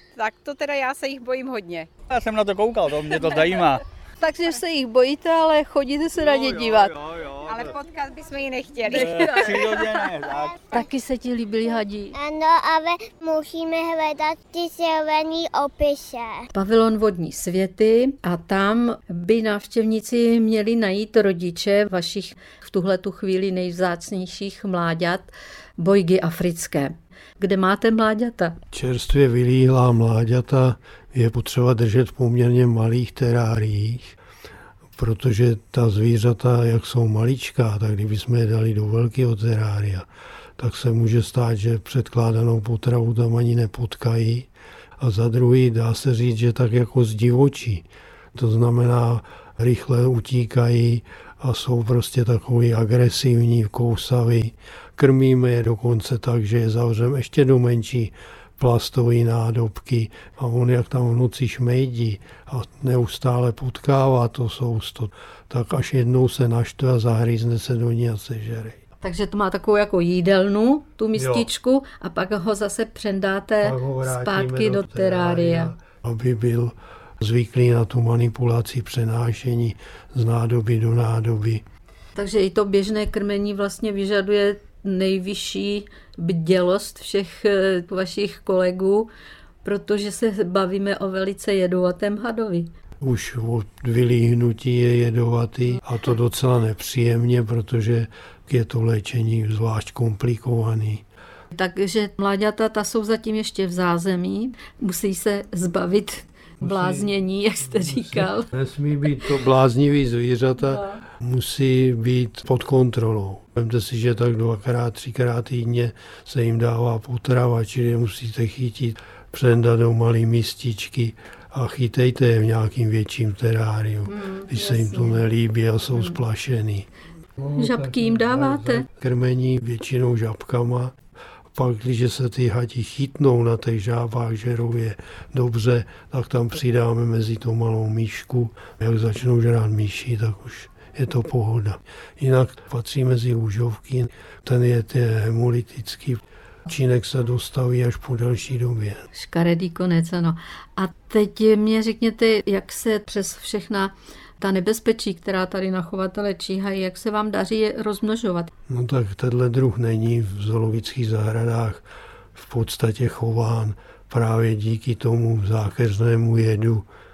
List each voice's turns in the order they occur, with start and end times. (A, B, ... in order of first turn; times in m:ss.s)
0:00.2-0:01.9 A
0:02.1-0:03.8 B
0:04.2-0:07.0 C
0:06.2-0:07.7 B
0:07.4-0:09.8 A
0:08.9-0:10.6 B
0:10.7-0:12.2 C
0:12.1-0:16.4 D
0:16.5-0:28.6 C
0:28.7-0:34.2 E
0:35.0-0:40.1 E
0:40.6-1:08.8 E
1:09.0-1:15.7 C
1:11.1-1:11.5 E
1:13.6-1:21.6 E
1:22.1-1:29.1 C
1:29.6-1:32.7 C
1:33.0-1:41.0 E
1:41.5-1:48.5 C
1:46.6-1:47.1 E
1:47.7-2:11.0 E
2:04.1-2:05.2 C
2:07.6-2:08.9 C
2:11.5-2:29.0 E
2:29.1-2:38.5 C
2:38.7-2:46.8 E